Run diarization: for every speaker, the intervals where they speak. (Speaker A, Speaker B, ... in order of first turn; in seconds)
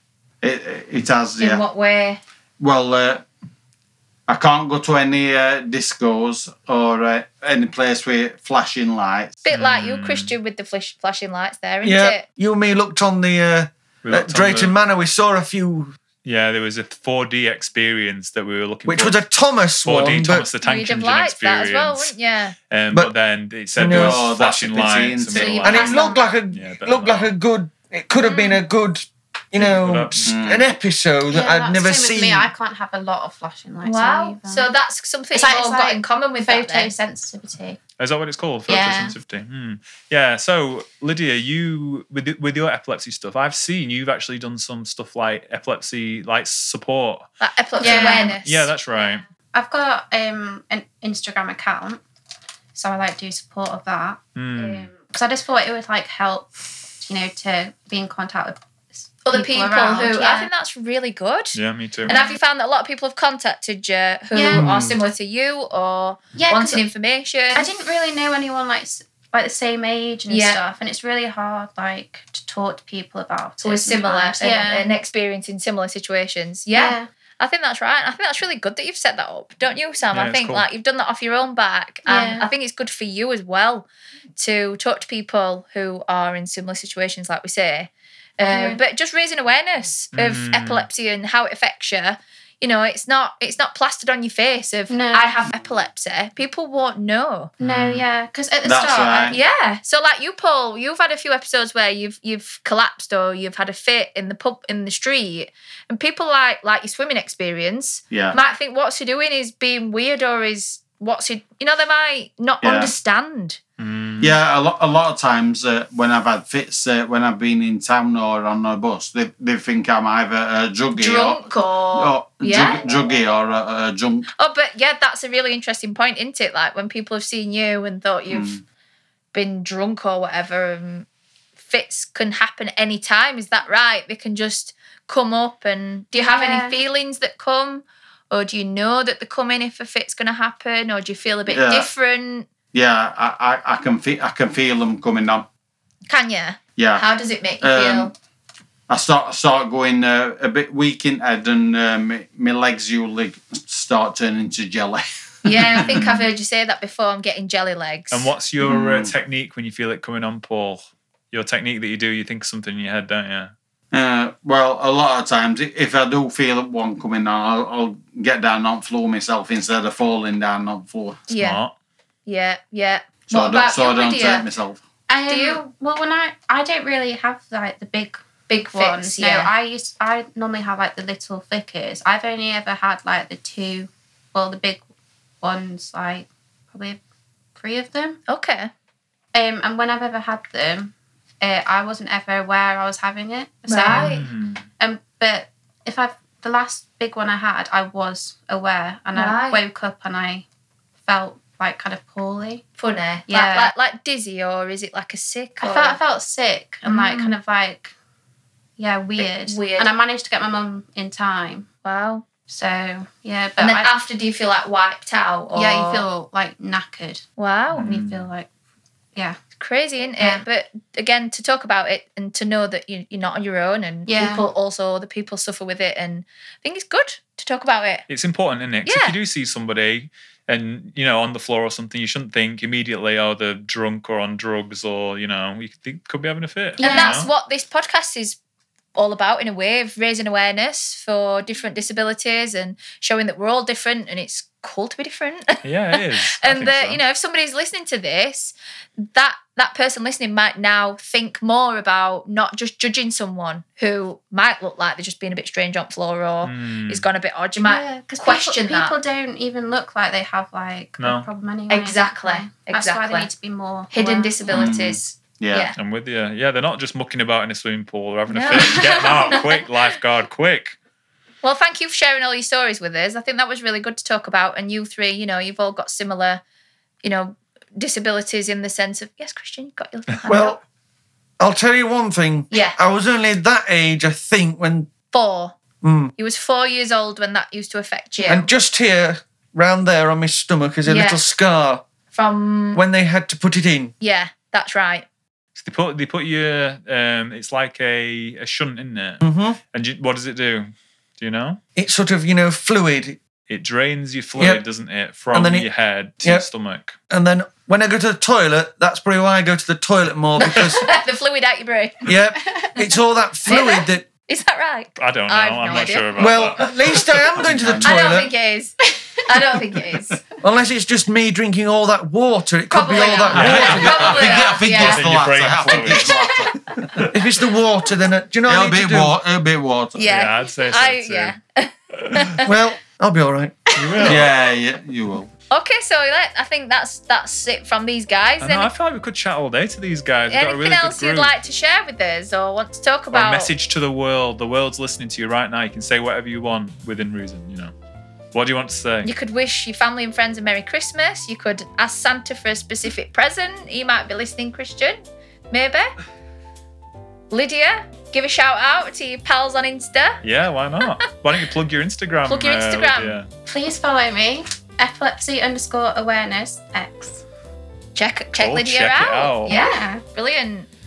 Speaker A: 0.4-1.6, 2.6-3.2, 4.3-9.4, 23.8-25.8, 30.3-30.6, 98.6-99.4, 108.1-108.4, 112.6-112.9, 114.2-121.4, 121.9-124.2, 128.3-128.6, 141.5-141.9, 142.7-145.5, 146.8-147.0, 147.6-148.1, 148.9-156.2, 158.6-159.1, 163.9-171.2, 173.3-174.8, 264.5-265.7, 317.3-318.0, 323.3-327.1, 328.5-330.3, 334.0-335.3
Speaker B: 1.4-2.2, 9.4-12.2, 20.6-22.6, 25.3-26.3, 28.2-28.6, 33.8-36.9, 47.4-48.7, 59.2-61.6, 62.1-67.7, 70.3-70.6, 73.6-97.5, 99.3-113.6, 121.0-122.9, 124.4-128.5, 129.3-131.1, 131.6-142.5, 146.1-148.1, 155.4-158.3, 171.3-171.6, 172.2-174.4, 175.3-175.6, 178.5-179.5, 188.3-188.7, 193.7-194.2, 199.1-199.6, 202.8-206.0, 206.8-207.4, 209.2-209.9, 211.8-212.3, 213.6-216.0, 217.4-217.9, 219.6-228.1, 228.8-229.1, 236.8-238.4, 238.9-258.9, 261.7-263.3, 263.9-265.8, 268.3-269.6, 271.4-276.4, 277.0-280.6, 282.5-282.8, 285.1-285.6, 286.1-288.5, 290.9-291.2, 292.1-292.8, 294.0-295.0, 310.4-312.0, 313.5-316.1, 317.8-320.2, 322.7-325.1, 329.9-332.5, 335.5-338.7, 340.3-343.5, 349.0-355.0, 355.5-355.9, 357.3-360.2, 362.2-363.1, 367.9-370.7
Speaker C: 9.5-10.3, 14.0-14.7, 16.2-19.2, 19.8-22.1, 22.7-27.3, 29.6-30.4, 38.0-47.3, 47.8-49.2, 54.4-54.9, 61.5-62.1, 80.1-80.6, 90.1-90.8, 97.6-98.0, 113.8-114.3, 158.1-163.5, 171.3-171.7, 193.8-194.6, 217.7-218.3, 228.1-237.3, 245.6-247.0, 256.4-257.0, 261.0-261.3, 265.8-270.8, 295.6-301.6, 303.5-306.9, 315.0-316.7, 323.3-326.2, 330.1-331.3, 332.0-332.3, 333.7-334.3, 338.4-341.3, 343.1-347.7, 348.3-349.1, 360.2-363.3, 368.3-369.6
Speaker D: 11.8-16.0, 18.9-20.5, 23.8-24.2, 25.6-32.5, 280.3-280.6, 281.4-284.9, 285.8-286.1, 288.2-291.8, 292.7-293.9, 299.2-299.6, 301.8-303.2, 304.4-304.6, 305.3-305.7, 307.1-310.9, 312.1-314.1, 316.1-318.3, 320.4-324.4, 327.1-329.2, 332.4-333.7
Speaker E: 31.3-34.7, 35.3-37.8, 38.7-39.1, 47.8-48.4, 49.5-52.0, 52.7-60.5, 62.1-62.4, 64.3-64.7, 66.3-66.8, 67.5-74.9, 76.7-77.1, 82.0-82.5, 88.4-88.8, 94.9-95.4, 97.6-99.4, 136.2-136.8, 175.1-184.8, 185.4-187.0, 187.6-188.2, 189.3-194.2, 194.8-200.4, 201.1-202.6, 203.3-203.7, 205.6-207.9, 208.8-211.7, 212.4-213.9, 215.5-217.2, 217.7-218.5, 220.2-220.4, 224.1-224.5, 236.8-237.2, 257.6-264.7, 268.5-269.4, 312.4-312.7, 363.4-367.2, 369.5-370.0